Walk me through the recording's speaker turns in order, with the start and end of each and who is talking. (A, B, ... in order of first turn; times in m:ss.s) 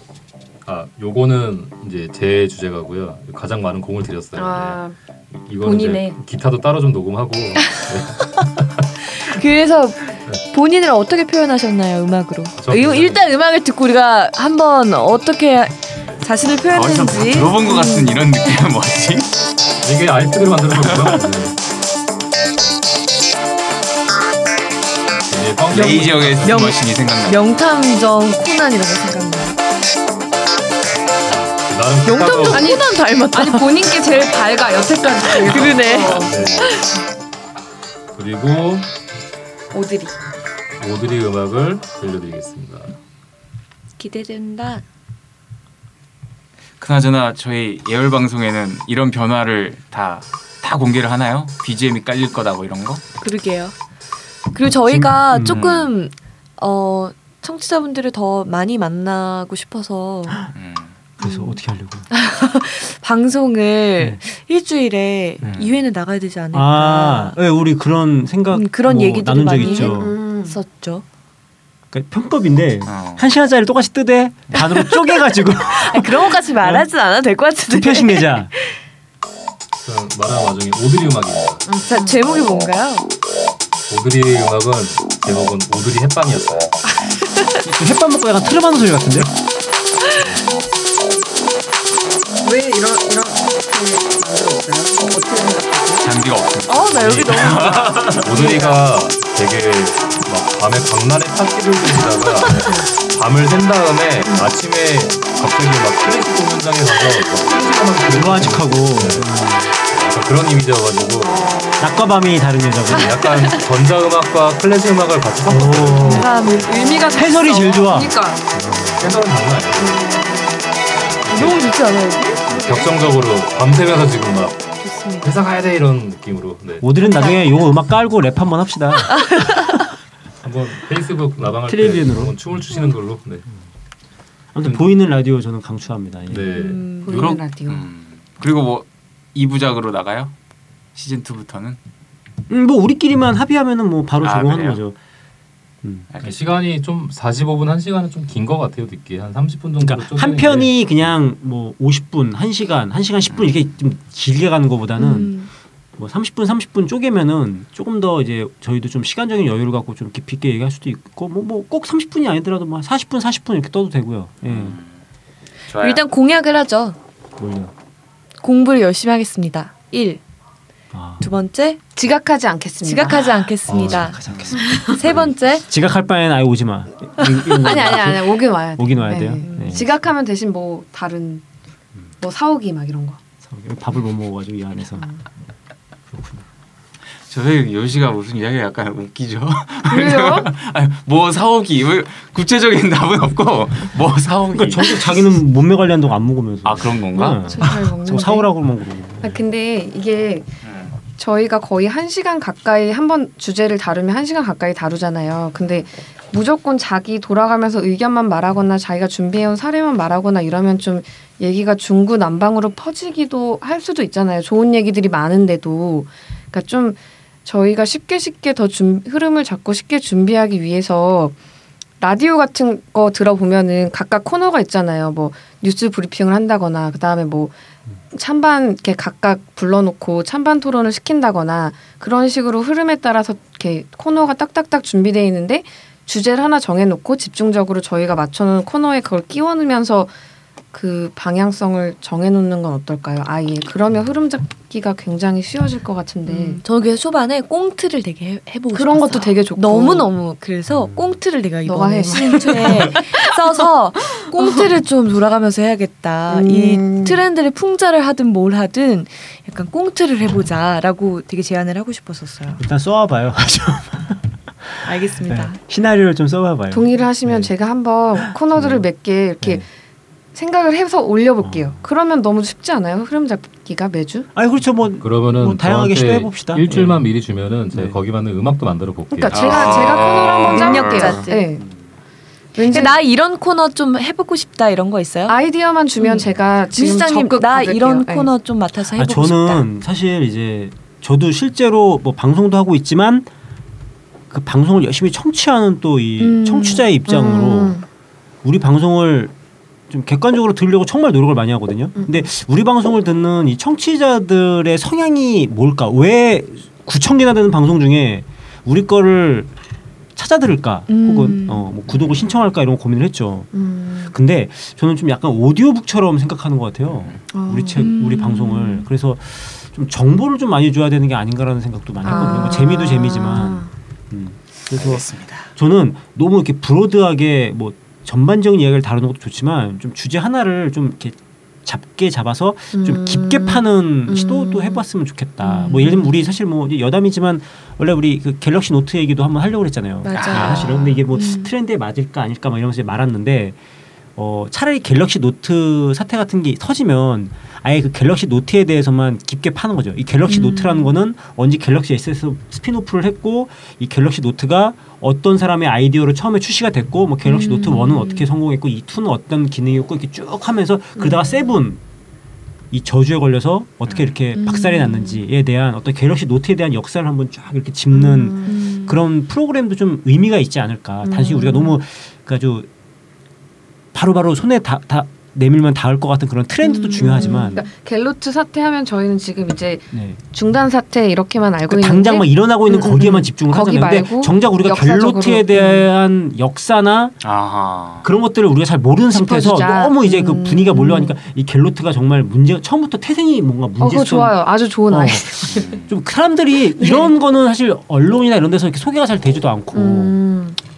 0:00.6-0:04.8 A
0:04.4-0:05.0 B
0:05.4-0:08.9 A
0:05.6-0:06.2 B
0:09.2-0:18.3 C
0:12.6-0:13.2 A
0:16.7-0:19.3 D
0:19.8-0:21.6 A
0:20.8-0:21.2 D
0:25.3-0:26.6 A
0:25.7-0:27.6 D
0:26.4-0:29.6 C
0:31.3-0:32.7 A
0:32.0-0:33.9 C
0:32.5-0:36.4 B
0:35.3-0:37.0 C
0:36.2-0:36.8 A
0:38.1-0:38.9 A
0:39.7-0:40.1 B
0:40.8-0:42.9 A
0:44.0-0:44.8 C
0:46.8-0:53.0 D
0:53.2-0:53.7 C
0:54.5-1:00.4 C
0:54.9-0:55.6 E
0:55.5-0:55.9 D
1:00.5-1:01.0 D
1:01.2-1:01.6 C
1:01.2-1:02.1 E
1:02.1-1:07.4 C
1:05.4-1:05.8 D
1:06.5-1:10.1 E
1:08.5-1:11.0 C
1:09.6-1:10.6 B
1:11.9-1:16.9 E
1:12.9-1:13.3 D
1:14.6-1:18.8 C
1:17.7-1:18.5 E
1:19.8-1:21.7 A
1:21.7-1:22.2 B
1:21.9-1:23.1 C
1:23.9-1:26.7 A
1:27.6-1:29.3 E
1:32.4-1:36.1 B
1:36.0-1:38.3 D
1:36.7-1:38.8 C
1:38.1-1:51.6 A
1:48.1-1:49.7 E
1:51.4-1:51.8 B
1:51.8-1:53.3 E
1:52.9-1:56.3 A
1:53.3-1:53.6 C
1:55.5-1:56.3 E
1:56.0-1:57.3 C
1:56.6-1:58.4 B
1:57.1-1:59.0 E
1:59.0-2:00.1 A
1:59.8-2:00.4 B
2:01.2-2:01.6 A
2:01.3-2:02.9 C
2:02.5-2:04.6 A
2:04.8-2:05.3 C
2:05.2-2:06.9 A
2:06.8-2:09.5 E
2:07.0-2:07.4 C
2:09.1-2:09.8 C
2:10.4-2:13.4 A
2:11.6-2:12.4 E
2:14.5-2:16.6 E
2:16.3-2:17.4 A
2:16.5-2:17.3 C
2:17.0-2:17.8 B
2:17.1-2:20.3 D
2:21.0-2:21.8 D
2:22.5-2:25.0 E
2:24.2-2:24.8 D
2:26.1-2:26.4 D
2:26.2-2:30.7 A
2:29.8-2:35.4 E
2:35.0-2:35.5 C
2:36.0-2:44.8 E
2:44.4-2:44.9 D
2:45.7-2:46.1 D
2:45.8-2:47.0 C
2:47.4-2:47.7 E
2:48.4-2:50.2 C
2:50.9-2:51.3 E
2:51.2-2:51.8 C
2:52.0-2:53.4 B
2:52.8-2:54.2 C
2:53.7-2:54.2 A
2:53.9-2:55.2 E
2:54.3-2:54.6 D
2:54.7-2:55.7 C
2:55.7-3:00.0 E
2:57.5-3:01.4 B
2:59.4-2:59.9 C
3:02.2-3:03.2 B
3:03.4-3:05.1 E
3:07.3-3:15.3 D
3:09.9-3:10.5 B
3:14.5-3:19.4 E
3:16.6-3:17.7 D
3:17.2-3:18.5 B
3:19.2-3:20.5 B
3:20.6-3:21.0 D
3:21.1-3:41.4 B
3:42.0-3:47.6 B
3:48.1-4:00.1 B
4:00.7-4:06.6 B
4:06.3-4:22.6 C
4:08.7-4:10.1 B
4:10.7-4:11.1 E
4:11.6-4:13.1 B
4:16.3-4:17.2 B
4:22.6-4:24.3 E
4:24.9-4:25.6 C
4:24.9-4:27.5 E
4:26.7-4:29.7 B
4:28.2-4:28.9 E
4:30.4-4:34.3 B
4:31.4-4:31.8 E
4:34.4-4:37.1 E
4:35.0-4:39.8 A
4:37.7-4:38.0 E
4:39.2-4:41.6 B
4:39.3-4:41.3 D
4:40.4-4:41.5 C
4:42.6-4:43.0 B
4:42.6-4:45.4 C
4:45.3-4:48.3 B
4:46.0-4:49.6 C
4:48.9-4:53.3 E
4:54.3-4:57.8 E
4:56.2-4:57.0 C
4:57.1-4:57.9 B
4:58.4-4:59.3 E
4:59.9-5:09.5 E
5:02.0-5:02.3 B
5:10.2-5:13.5 E
5:10.9-5:11.7 C
5:13.5-5:14.2 B
5:14.1-5:43.6 E
5:16.9-5:17.2 D
5:17.3-5:17.9 B
5:17.8-5:18.9 C
5:22.0-5:23.7 B
5:22.1-5:22.4 C
5:24.7-5:25.5 D
5:32.7-5:34.8 B
5:35.5-5:36.1 B
5:40.0-5:41.5 C
5:40.1-5:41.0 D
5:44.2-6:01.8 E
5:50.3-5:51.0 C
5:57.2-5:58.3 C
6:01.0-6:01.6 B
6:02.7-6:12.7 E
6:03.9-6:04.2 D
6:04.4-6:05.2 C
6:07.9-6:08.6 B
6:08.5-6:09.0 C
6:11.0-6:11.8 B
6:13.9-6:17.7 E
6:16.8-6:17.6 C
6:16.9-6:25.9 B
6:19.9-6:20.2 E
6:21.7-6:27.2 E
6:27.2-6:28.1 D
6:28.0-6:40.2 E
6:29.1-6:31.2 B
6:33.8-6:35.7 B
6:35.5-6:35.9 D
6:36.8-6:37.1 B
6:39.7-6:40.6 B